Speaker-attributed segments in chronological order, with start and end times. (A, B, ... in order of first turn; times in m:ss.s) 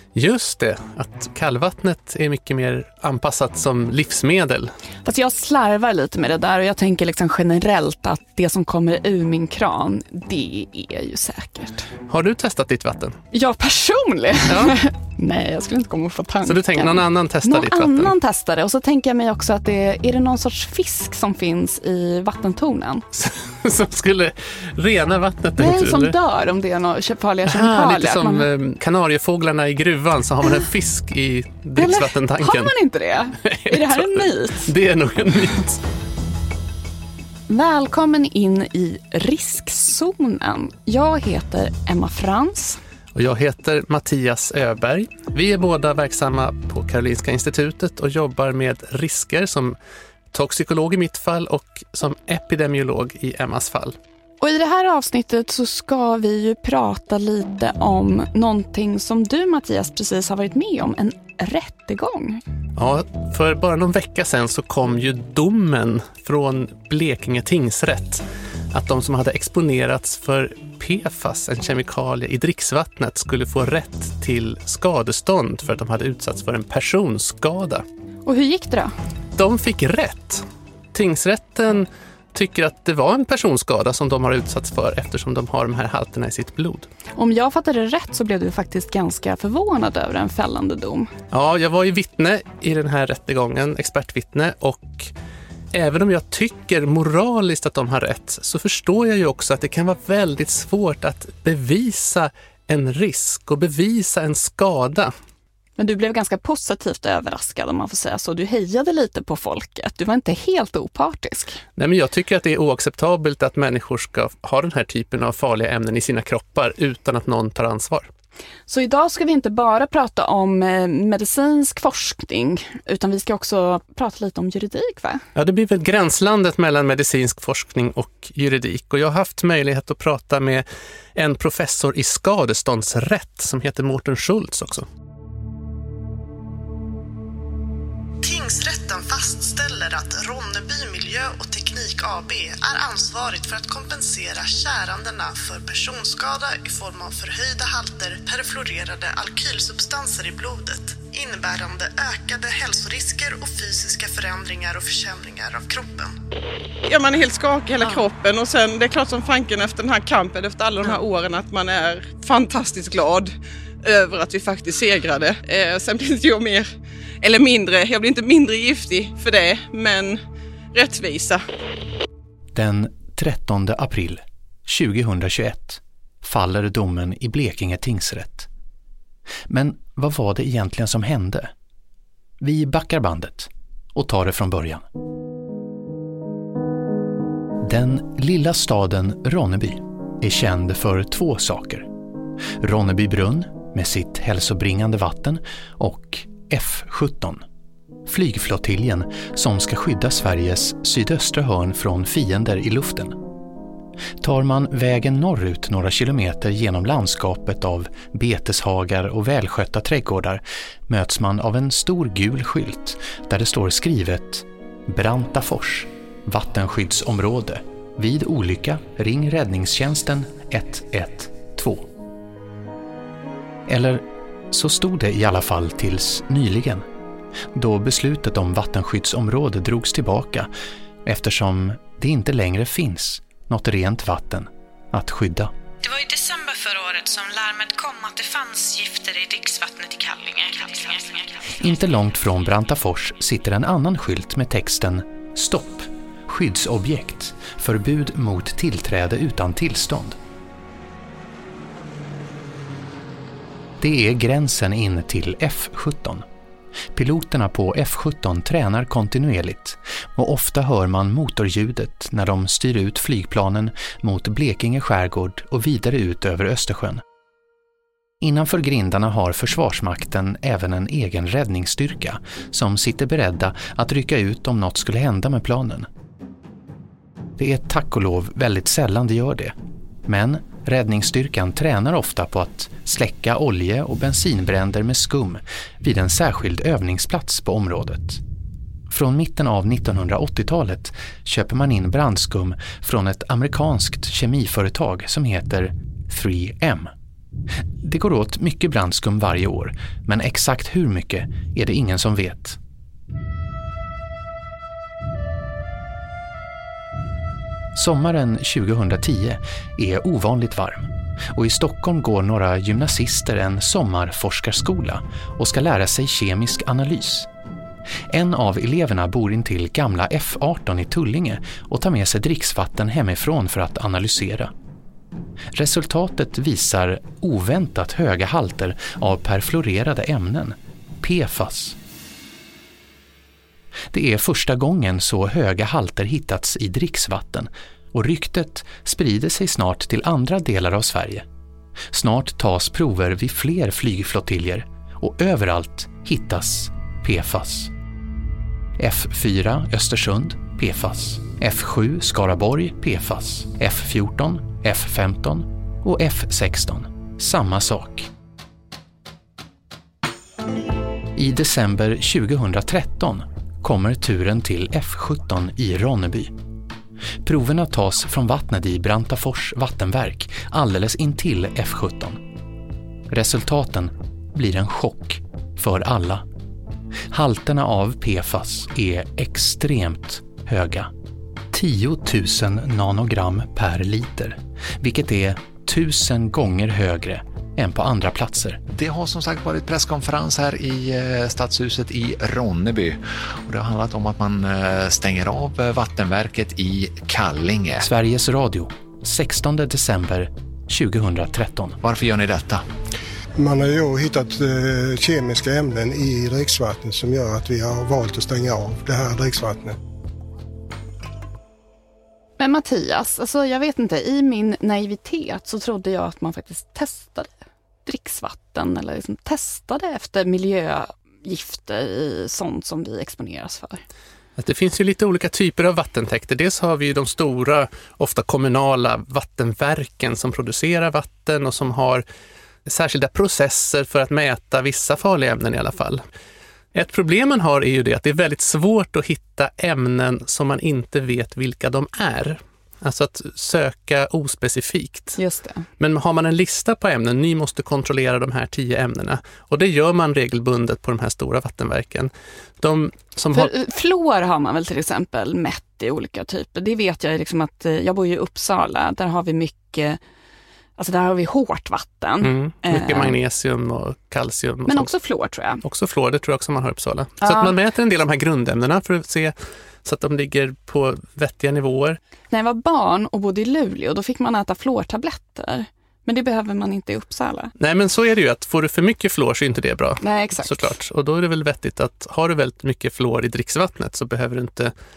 0:00.2-0:04.7 A
0:05.0-0:11.9 B
0:12.1-0:13.2 A
0:13.3-0:23.0 B
0:14.5-0:14.8 A
0:16.5-0:18.1 A
0:23.1-0:26.2 A
0:25.6-0:28.5 B
0:27.4-0:32.8 A
0:31.8-0:34.7 B
0:33.4-0:35.8 A
0:37.5-0:42.8 B
0:43.1-0:49.8 A
0:50.3-0:54.0 A
0:54.4-1:02.4 B
1:02.8-1:17.8 A
1:18.2-1:18.9 B
1:19.4-1:26.9 A
1:27.2-1:31.1 B
1:31.3-1:35.1 A
1:35.7-1:45.1 A
1:45.8-1:51.6 B
1:51.8-1:58.1 A
1:58.7-2:05.2 B
2:05.4-2:14.9 A
2:18.2-2:36.1 C
2:36.9-2:43.3 D
2:43.8-2:46.7 D
2:47.2-2:50.2 D
2:50.7-2:51.4 D
2:52.5-2:58.5 E
2:59.5-3:01.5 E
3:02.4-3:04.9 E
3:07.6-3:11.9 E
3:12.6-3:17.4 E
3:18.1-3:23.2 E
3:24.2-3:41.9 E
3:43.7-3:46.9 E
3:47.5-3:50.5 E
3:51.0-3:55.5 E
3:55.8-4:01.7 F
4:01.6-4:10.2 E
4:13.8-4:16.2 E
4:16.9-4:27.0 E
4:28.2-4:35.9 E
4:37.4-4:39.6 E
4:40.1-4:48.2 E
4:48.9-4:56.9 E
4:57.8-5:02.6 E
5:07.8-5:17.3 E
5:18.1-5:24.5 E
5:25.5-5:31.8 E
5:33.9-5:41.3 E
5:41.9-5:47.7 E
5:48.8-5:58.1 E
6:01.2-6:06.3 E
6:07.2-6:12.2 E
6:13.1-6:16.2 E
6:17.1-6:20.9 E
6:21.5-6:28.6 E
6:28.7-6:37.8 G
6:37.8-6:41.8 E
6:41.8-6:42.6 G
6:43.4-6:49.8 H
6:52.4-7:03.8 B
7:04.4-7:12.0 A
7:12.7-7:16.0 A
7:16.7-7:25.2 A
7:25.2-7:25.7 B
7:25.8-7:33.5 A
7:33.3-7:40.0 B
7:40.8-7:43.2 B
7:42.2-7:44.9 A
7:44.7-7:45.6 B
7:45.6-7:52.0 A
7:47.2-7:47.5 B
7:52.3-7:57.5 B
7:57.6-8:04.7 A
8:00.0-8:00.7 B